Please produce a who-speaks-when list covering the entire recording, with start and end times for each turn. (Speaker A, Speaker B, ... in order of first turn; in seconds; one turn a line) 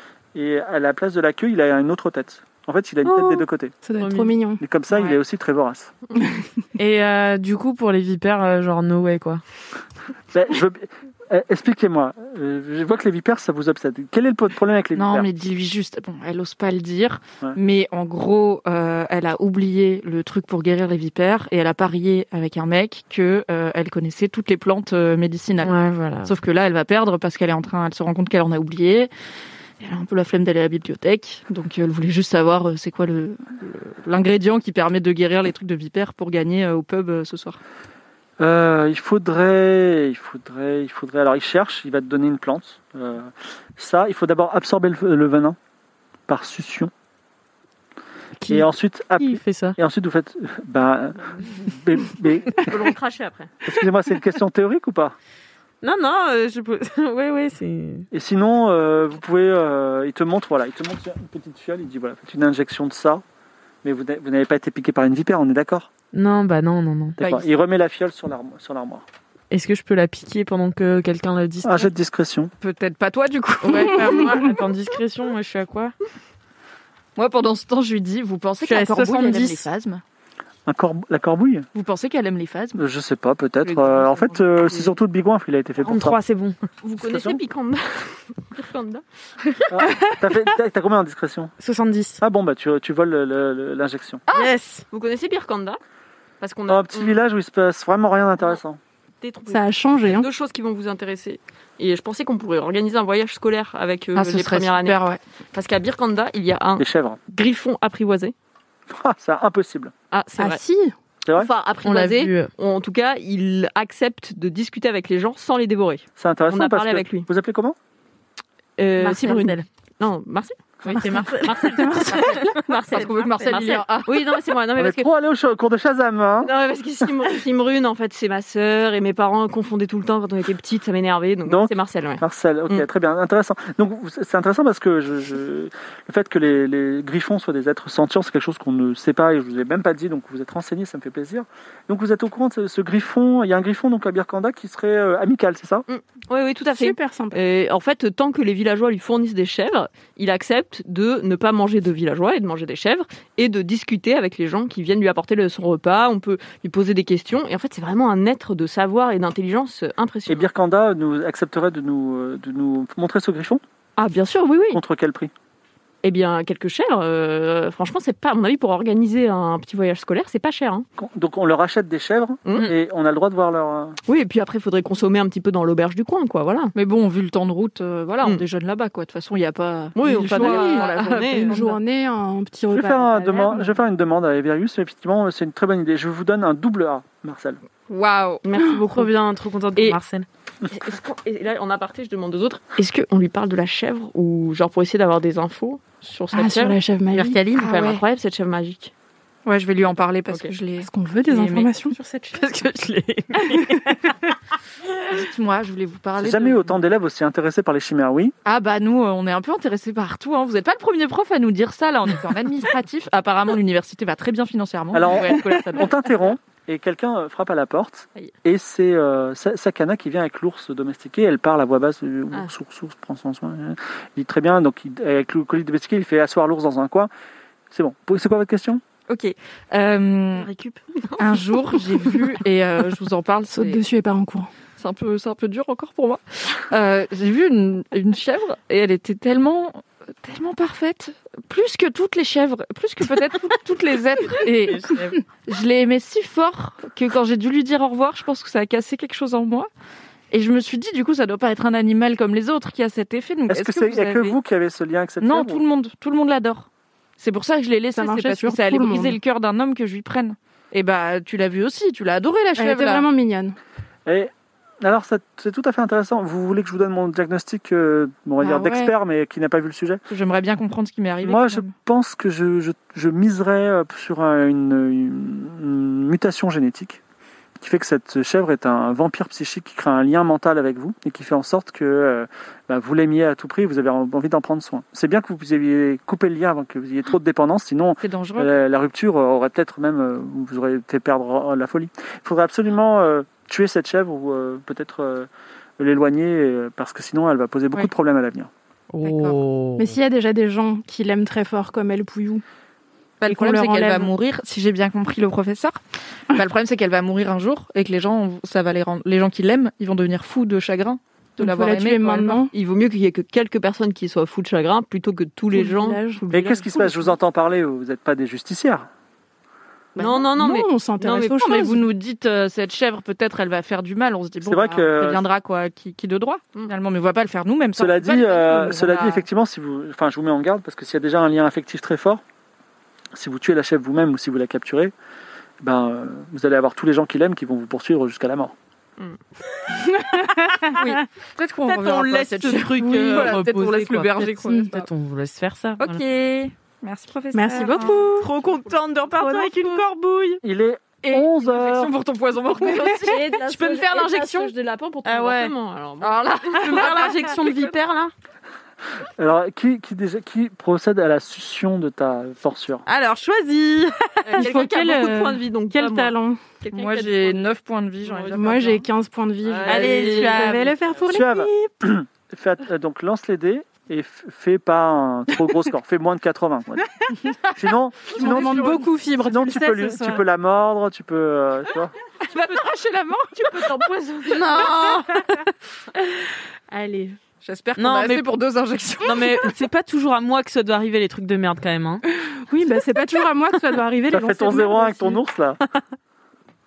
Speaker A: 0.3-3.8
Speaker B: 3.0-3.4
Speaker C: 3.8-4.6
Speaker B: 4.0-4.4
Speaker A: 4.6-5.9
Speaker B: 6.8-9.4
Speaker A: 10.3-15.3
Speaker D: 14.9-29.1
Speaker B: 25.6-26.3
Speaker D: 29.8-37.6
Speaker A: 38.4-45.6
Speaker A: 46.3-46.9
Speaker B: 48.4-48.7
Speaker A: 48.5-52.6
Speaker B: 49.2-49.8
Speaker E: 52.6-53.6
Speaker A: 53.6-55.1
Speaker B: 55.8-58.1
Speaker A: 58.1-63.2
Speaker A: 63.8-65.9
Speaker B: 66.1-67.2
Speaker A: 67.2-69.0
Speaker D: 67.2-67.5
Speaker B: 69.5-71.9
Speaker A: 71.6-72.5
Speaker D: 72.6-74.5
Speaker B: 73.6-75.9
Speaker C: 74.0-74.4
Speaker D: 77.2-80.0
Speaker B: 78.6-79.7
Speaker A: 80.7-81.7
Speaker D: 81.7-82.8
Speaker A: 82.8-86.2
Speaker D: 83.6-84.9
Speaker B: 85.8-86.6
Speaker E: 86.8-89.0
Speaker A: 87.0-87.4
Speaker A: 89.7-91.5
Speaker B: 91.6-92.2
Speaker A: 92.2-94.2
Speaker B: 94.3-94.8
Speaker E: 94.9-95.8
Speaker E: 96.4-97.2
Speaker A: 96.7-98.8
Speaker E: 99.2-105.0
Speaker C: 99.5-100.3
Speaker D: 104.1-105.2
Speaker E: 105.5-108.3
Speaker A: 106.8-107.2
Speaker A: 108.9-109.9
Speaker E: 110.1-110.6
Speaker C: 110.4-110.9
Speaker E: 111.3-117.3
Speaker B: 111.8-112.5
Speaker A: 116.2-117.8
Speaker E: 118.8-125.1
Speaker B: 119.0-119.6
Speaker B: 120.8-122.6
Speaker C: 121.6-122.5
Speaker D: 122.8-124.3
Speaker A: 124.8-126.5
Speaker E: 126.4-132.9
Speaker A: 131.4-145.8
Speaker E: 145.9-160.5
Speaker C: 146.7-147.4
Speaker A: 160.3-163.6
Speaker E: 164.0-164.8
Speaker A: 164.7-165.3
Speaker E: 166.0-170.9
Speaker A: 171.0-174.0
Speaker E: 172.4-172.7
Speaker E: 174.1-176.7
Speaker D: 176.7-181.8
Speaker E: 179.9-181.7
Speaker C: 180.1-183.8
Speaker A: 182.7-187.6
Speaker D: 187.9-188.4
Speaker E: 188.4-189.1
Speaker B: 188.9-190.2
Speaker E: 190.7-198.9
Speaker C: 196.3-197.4
Speaker D: 197.5-198.0
Speaker D: 199.4-201.7
Speaker E: 200.3-200.5
Speaker C: 200.8-202.0
Speaker B: 202.3-204.1
Speaker C: 203.4-203.8
Speaker D: 205.1-206.8
Speaker A: 206.2-208.3
Speaker D: 208.4-215.9
Speaker A: 214.9-227.1
Speaker A: 227.7-228.8
Speaker D: 229.1-230.5
Speaker E: 230.4-231.6
Speaker D: 231.2-233.8
Speaker C: 233.5-234.5
Speaker D: 234.8-249.7
Speaker B: 244.7-245.2
Speaker D: 250.3-254.4
Speaker A: 253.5-255.6
Speaker D: 255.2-256.7
Speaker D: 257.2-263.1
Speaker C: 257.9-259.2
Speaker C: 262.6-263.6
Speaker A: 264.1-270.0
Speaker C: 268.4-268.9
Speaker D: 270.1-271.7
Speaker A: 271.2-277.0
Speaker A: 277.6-298.5
Speaker D: 288.0-288.5
Speaker B: 298.9-300.0
Speaker D: 299.0-299.4
Speaker C: 299.8-302.4
Speaker D: 303.2-312.4
Speaker C: 303.2-304.1
Speaker C: 311.4-312.5
Speaker E: 312.5-316.6
Speaker C: 315.5-317.1
Speaker A: 316.3-318.9
Speaker C: 319.9-321.8
Speaker E: 320.0-321.4
Speaker D: 321.2-329.2
Speaker A: 324.4-325.2
Speaker A: 327.8-332.2
Speaker A: 333.1-334.9
Speaker A: 335.6-338.5
Speaker C: 339.7-340.9
Speaker D: 340.7-344.9
Speaker B: 341.7-346.0
Speaker C: 343.1-343.3
Speaker D: 345.8-348.2
Speaker C: 347.3-348.3
Speaker E: 347.6-349.3
Speaker B: 348.2-350.4
Speaker D: 349.3-349.8
Speaker A: 350.4-351.9
Speaker D: 351.0-354.5
Speaker C: 352.7-353.2
Speaker E: 352.7-357.6
Speaker B: 355.0-355.5
Speaker D: 356.0-357.5
Speaker B: 356.6-358.1
Speaker A: 359.2-362.8
Speaker B: 362.9-364.5
Speaker E: 364.2-367.5
Speaker C: 364.3-366.4
Speaker D: 366.7-368.9
Speaker E: 368.1-368.4
Speaker C: 368.3-371.5
Speaker E: 369.4-371.1
Speaker D: 369.6-370.6
Speaker B: 369.7-371.1
Speaker A: 371.1-376.9
Speaker A: 377.6-381.9
Speaker C: 378.1-380.2
Speaker D: 378.2-378.7
Speaker D: 382.2-384.7
Speaker E: 383.4-385.0
Speaker B: 384.3-385.4
Speaker C: 386.7-387.2
Speaker D: 387.4-389.5
Speaker B: 387.8-388.2
Speaker B: 389.0-392.0
Speaker C: 392.4-395.2
Speaker A: 394.1-395.6